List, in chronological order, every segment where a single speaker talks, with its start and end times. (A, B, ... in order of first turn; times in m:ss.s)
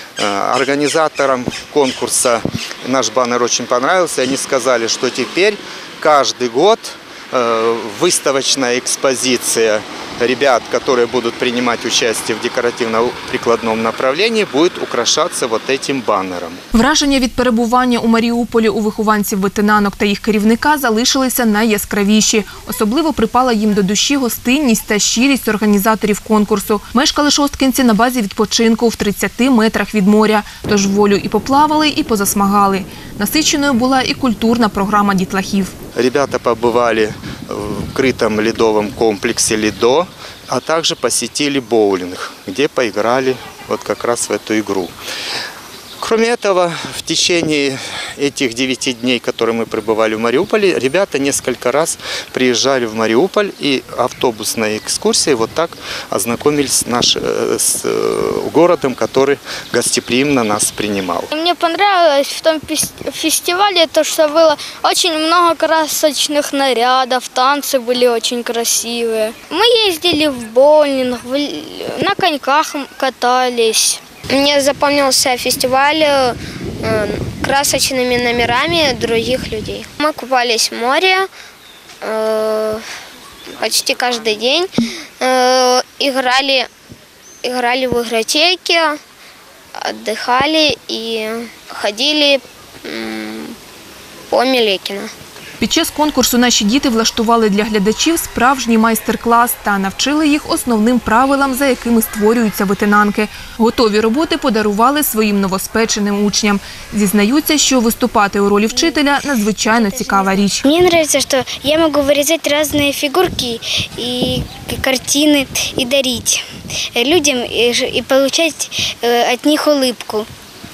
0:00.2-0:16.6 A
0:16.7-0:35.7 B
0:36.0-0:44.9 A
0:46.0-1:01.3 A
1:01.3-1:14.0 C
1:14.3-1:21.3 D
1:22.0-1:22.8 D
1:23.5-1:26.7 D
1:27.4-1:29.0 D
1:29.8-1:33.5 D
1:34.3-1:35.1 D
1:35.6-1:50.7 B
1:48.7-1:49.0 E
1:49.6-2:00.3 E